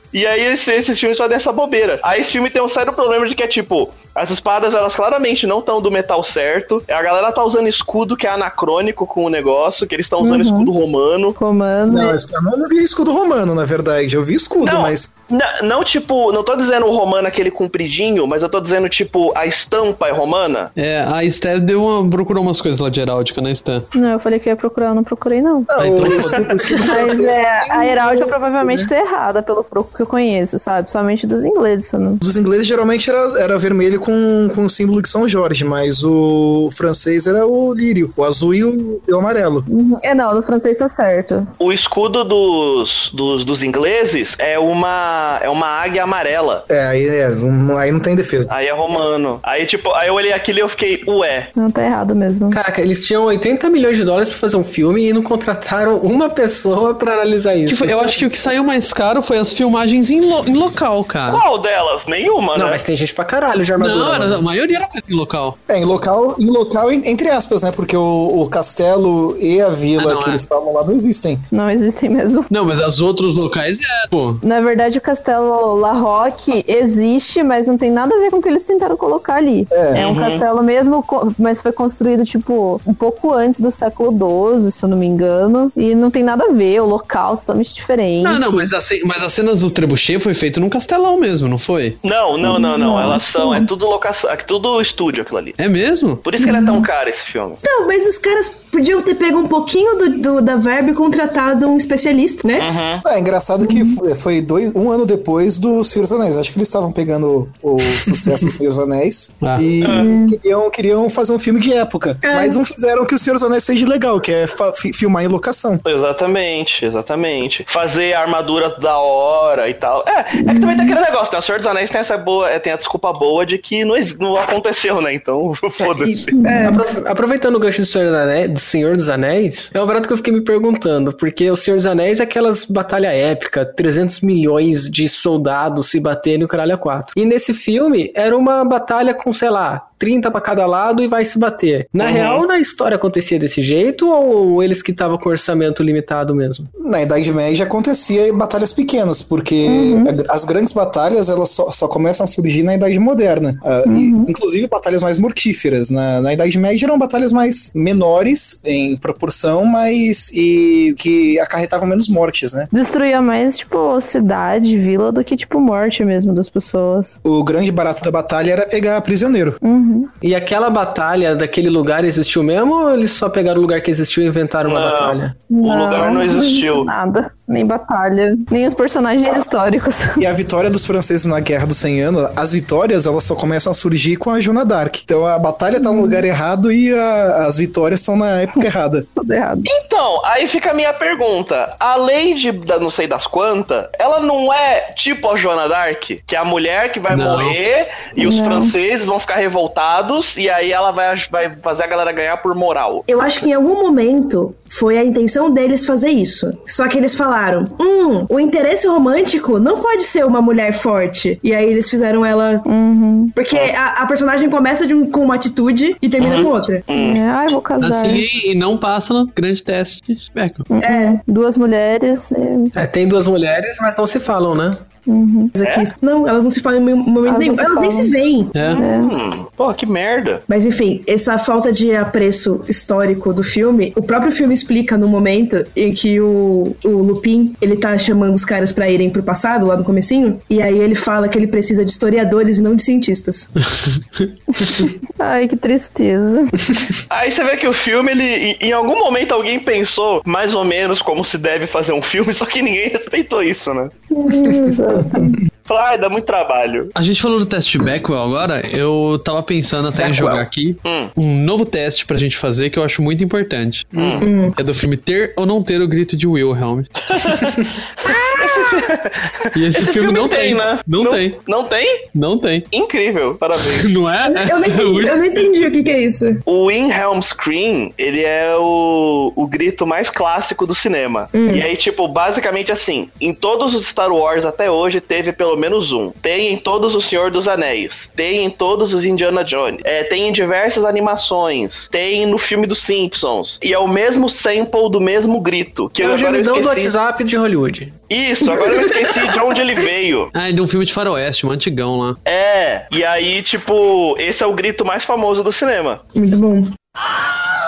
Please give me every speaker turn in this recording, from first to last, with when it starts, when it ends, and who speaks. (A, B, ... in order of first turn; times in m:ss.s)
0:00.1-0:11.4 A
0:10.2-0:10.7 B
0:11.4-0:12.2 B
0:11.9-0:15.1 C
0:14.6-0:20.7 A
0:20.8-0:23.9 D
0:23.9-0:25.9 B
0:25.7-0:28.9 C
0:25.8-0:26.4 D
0:26.7-0:32.2 B
0:32.2-0:39.6 C
0:39.7-0:41.5 B
0:41.6-0:46.6 A
0:46.7-0:48.5 C
0:48.5-0:51.5 A
0:51.6-0:52.6 B
0:52.5-0:58.3 E
0:57.7-1:01.4 D
1:01.3-1:02.8 A
1:02.5-1:04.4 E
1:03.8-1:05.6 D
1:05.7-1:11.4 C
1:10.0-1:10.4 D
1:11.5-1:12.5 B
1:12.5-1:14.4 D
1:14.4-1:28.7 B
1:19.7-1:20.0 C
1:19.9-1:20.4 A
1:28.2-1:32.0 D
1:32.0-1:35.6 A
1:32.4-1:33.7 B
1:32.8-1:33.2 F
1:35.6-1:36.2 D
1:36.2-1:37.6 A
1:36.4-1:36.8 F
1:37.6-1:42.7 F
1:42.6-1:43.0 A
1:43.0-1:55.8 C
1:43.7-1:43.9 B
1:49.4-1:49.7 D
1:49.8-1:50.1 A
1:49.8-1:50.4 B
1:52.2-1:52.6 F
1:55.8-2:06.4 A
2:00.5-2:00.9 B
2:05.8-2:06.8 F
2:06.3-2:06.8 B
2:06.6-2:26.7 E
2:22.0-2:22.4 A
2:26.8-2:42.7 C
2:29.6-2:30.1 B
2:33.8-2:34.3 B
2:42.7-2:47.2 B
2:47.2-2:49.6 C
2:49.6-2:50.1 B
2:50.2-2:55.4 E
2:54.7-2:56.9 A
2:55.5-3:00.2 B
3:00.2-3:09.0 C
3:05.8-3:06.2 B
3:09.2-3:09.7 B
3:09.6-3:23.1 A
3:17.1-3:17.6 D
3:18.2-3:18.7 B
3:23.1-3:32.7 F
3:32.6-3:33.3 B
3:33.3-3:36.9 F
3:36.2-3:37.2 A
3:36.9-3:38.3 B
3:37.8-3:40.7 D
3:40.7-3:42.7 B
3:40.8-3:41.2 F
3:42.7-3:44.8 E
3:45.0-3:45.5 B
3:45.5-3:48.8 F
3:45.6-3:45.9 A
3:47.2-3:48.1 B
3:48.5-3:48.8 D
3:48.6-3:49.1 B
3:48.7-3:50.4 A
3:50.5-4:03.5 F
4:03.6-4:04.3 D
4:04.6-4:06.5 B
4:07.1-4:13.9 A
4:14.1-4:15.4 B
4:15.0-4:15.3 C
4:15.6-4:16.9 A
4:16.9-4:27.6 D
4:20.0-4:21.1 A
4:23.9-4:24.3 A
4:24.2-4:24.6 F
4:27.1-4:32.1 A
4:28.0-4:28.9 F
4:29.5-4:31.4 D
4:32.1-4:32.7 D
4:32.7-4:33.9 A
4:33.6-4:35.3 D
4:34.2-4:36.4 F
4:36.4-4:56.9 A
4:41.3-4:41.6 F
4:56.0-4:58.0 E
4:58.1-5:00.3 A
4:58.5-4:59.1 F
5:00.3-5:02.2 D
5:02.2-5:06.0 A
5:06.1-5:06.7 F